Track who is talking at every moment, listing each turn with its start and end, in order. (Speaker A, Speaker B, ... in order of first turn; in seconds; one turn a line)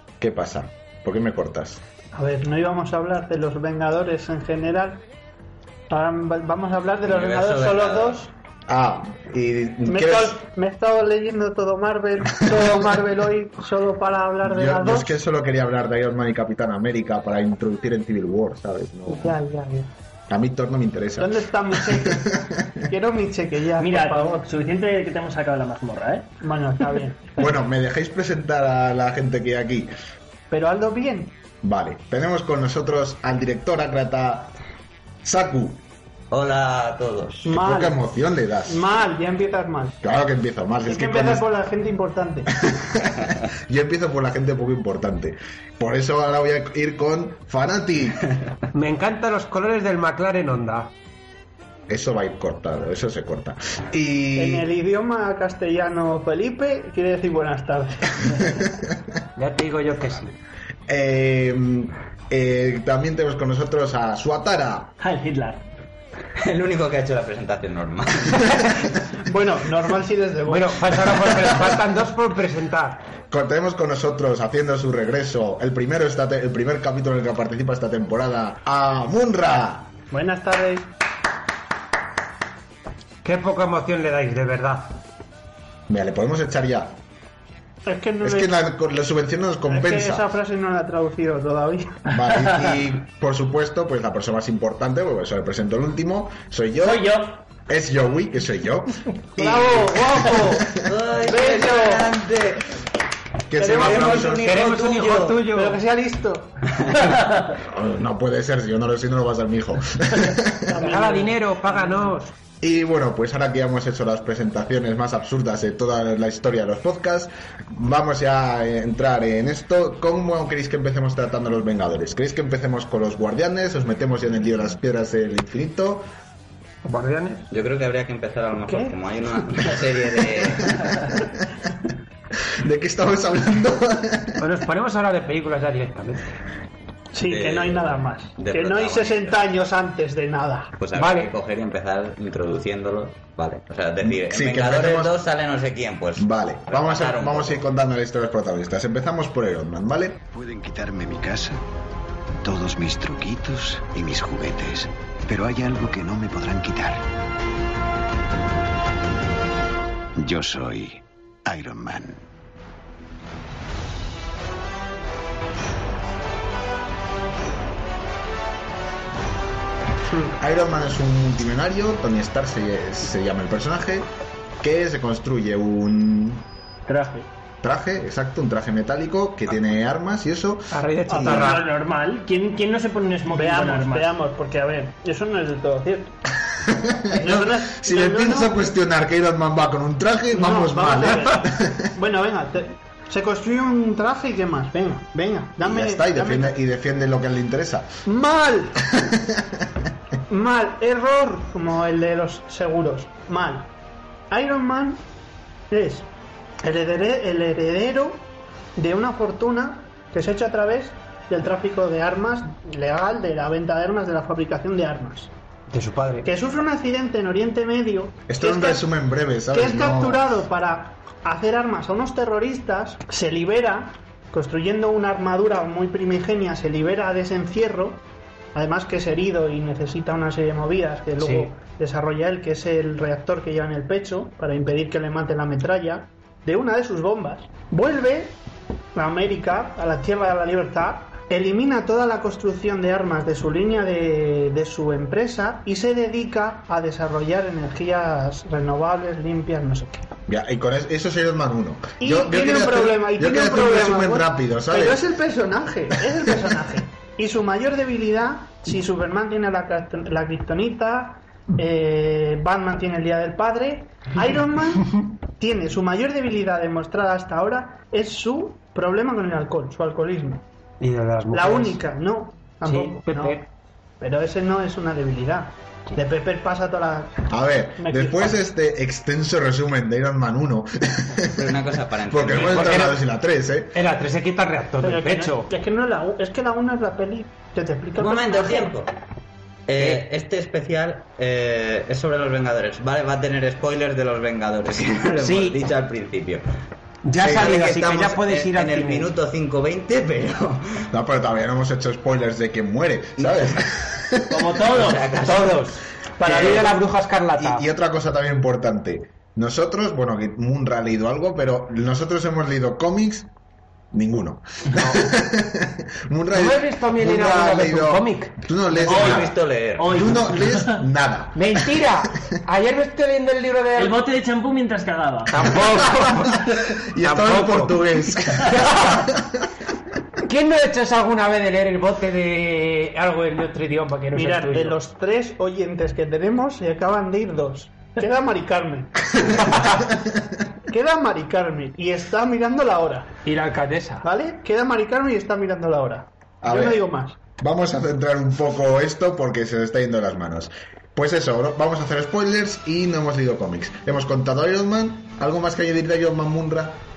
Speaker A: 0.2-1.8
Speaker B: 2.1-5.0
Speaker B: 5.9-8.3
Speaker C: 7.0-8.2
Speaker A: 8.7-10.4
Speaker B: 9.8-15.1
Speaker A: 14.4-19.4
Speaker B: 19.1-19.9
Speaker A: 20.3-22.8
Speaker B: 21.2-22.3
Speaker B: 22.8-24.4
Speaker D: 23.8-26.3
Speaker B: 26.4-27.3
Speaker A: 27.4-29.9
Speaker B: 30.5-31.3
Speaker A: 31.6-34.5
Speaker A: 35.2-35.8
Speaker C: 36.3-37.4
Speaker B: 37.4-38.0
Speaker A: 37.5-38.8
Speaker B: 38.6-40.0
Speaker A: 40.0-41.5
Speaker B: 40.9-42.5
Speaker A: 42.6-48.3
Speaker E: 48.7-50.9
Speaker A: 51.9-54.7
Speaker B: 54.3-58.4
Speaker E: 59.4-60.4
Speaker A: 60.9-64.9
Speaker D: 65.0-65.6
Speaker C: 66.4-68.9
Speaker B: 69.2-70.9
Speaker E: 70.5-73.0
Speaker A: 73.3-79.9
Speaker B: 80.1-80.9
Speaker E: 83.2-85.0
Speaker A: 85.9-87.0
Speaker B: 87.8-88.5
Speaker A: 88.2-90.3
Speaker B: 89.7-92.0
Speaker A: 92.1-100.6
Speaker D: 92.2-92.7
Speaker D: 96.8-97.4
Speaker B: 99.4-100.3
Speaker E: 99.7-100.7
Speaker C: 100.8-102.7
Speaker B: 101.3-102.0
Speaker E: 101.3-101.7
Speaker A: 103.5-104.6
Speaker B: 103.6-104.4
Speaker C: 103.8-105.4
Speaker E: 103.9-105.8
Speaker B: 105.4-106.6
Speaker A: 107.5-110.8
Speaker B: 110.7-111.3
Speaker E: 110.8-112.3
Speaker A: 112.6-126.0
Speaker E: 126.8-127.4
Speaker C: 127.5-130.8
Speaker B: 128.7-128.9
Speaker A: 132.6-134.4
Speaker E: 134.4-136.2
Speaker B: 137.1-140.7
Speaker C: 137.2-139.4
Speaker C: 140.8-147.6
Speaker E: 140.9-141.3
Speaker A: 144.0-145.1
Speaker A: 146.2-150.2
Speaker F: 150.3-151.6
Speaker F: 152.4-157.0
Speaker F: 160.2-162.2
Speaker A: 170.2-174.1
Speaker A: 174.6-176.4
Speaker D: 176.8-177.3
Speaker A: 177.6-180.8
Speaker E: 180.7-181.7
Speaker B: 181.1-181.5
Speaker D: 181.2-184.2
Speaker B: 183.3-186.1
Speaker A: 186.5-191.9
Speaker B: 187.1-188.6
Speaker B: 190.3-196.6
Speaker A: 195.6-197.9
Speaker B: 198.0-198.8
Speaker A: 198.8-199.7
Speaker B: 200.3-203.7
Speaker B: 204.3-205.0
Speaker B: 205.7-206.1
Speaker B: 206.6-215.3
Speaker E: 215.7-216.3
Speaker B: 216.2-218.9
Speaker A: 218.3-220.3
Speaker B: 219.5-228.0
Speaker B: 228.5-238.4
Speaker E: 231.2-231.5
Speaker B: 238.9-250.0
Speaker A: 250.3-255.1
Speaker B: 252.0-270.4
Speaker E: 270.8-271.8
Speaker B: 271.3-273.4
Speaker E: 272.6-273.5
Speaker B: 274.0-277.2
Speaker A: 277.3-281.6
Speaker B: 277.8-278.4
Speaker C: 281.3-282.8
Speaker A: 282.1-283.8
Speaker E: 282.3-283.0
Speaker E: 283.7-285.5
Speaker B: 284.8-288.7
Speaker C: 288.0-288.9
Speaker C: 289.7-296.4
Speaker E: 295.2-295.6
Speaker E: 297.0-299.1
Speaker C: 297.2-300.9
Speaker A: 300.9-304.5
Speaker C: 303.2-303.7
Speaker D: 304.3-305.2
Speaker C: 304.6-305.7
Speaker E: 305.2-307.6
Speaker A: 306.2-306.8
Speaker C: 306.3-306.6
Speaker A: 307.4-313.3
Speaker A: 313.9-319.3
Speaker E: 314.8-315.1
Speaker E: 316.3-318.4
Speaker C: 318.8-320.2
Speaker D: 318.9-320.8
Speaker A: 319.9-321.8
Speaker E: 321.3-324.0
Speaker D: 323.8-325.5
Speaker E: 325.3-326.5
Speaker A: 326.7-329.3
Speaker E: 327.0-329.1
Speaker E: 330.2-334.8
Speaker B: 334.1-339.7
Speaker A: 339.7-340.2
Speaker B: 340.7-343.1
Speaker E: 343.2-344.0
Speaker B: 344.0-347.2
Speaker A: 346.4-346.8
Speaker A: 347.4-356.8